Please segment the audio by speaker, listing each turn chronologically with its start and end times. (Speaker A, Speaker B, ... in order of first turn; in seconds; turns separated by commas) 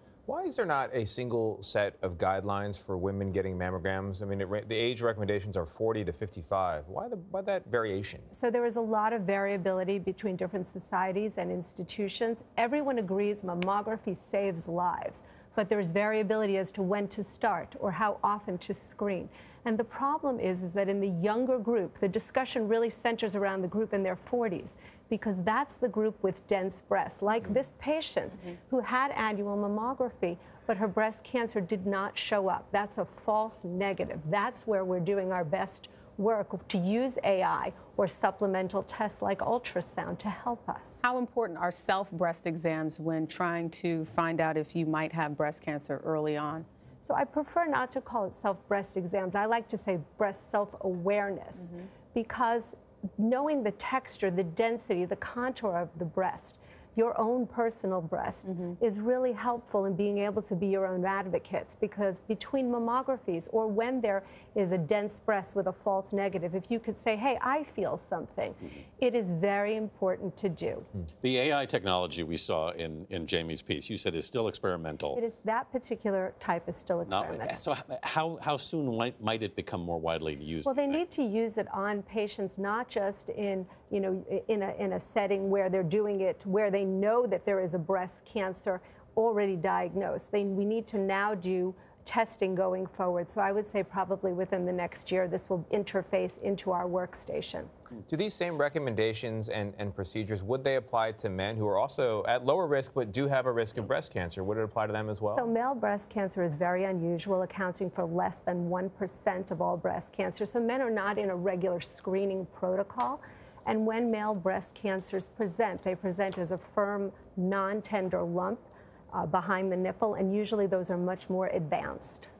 Speaker A: 0.3-8.3, Speaker B: 8.3-41.0, Speaker C: 41.0-46.7, Speaker B: 47.0-70.9, Speaker D: 71.2-75.2, Speaker B: 75.1-77.6, Speaker D: 77.1-81.0, Speaker B: 80.7-97.7, Speaker A: 98.1-105.5, Speaker B: 105.3-122.3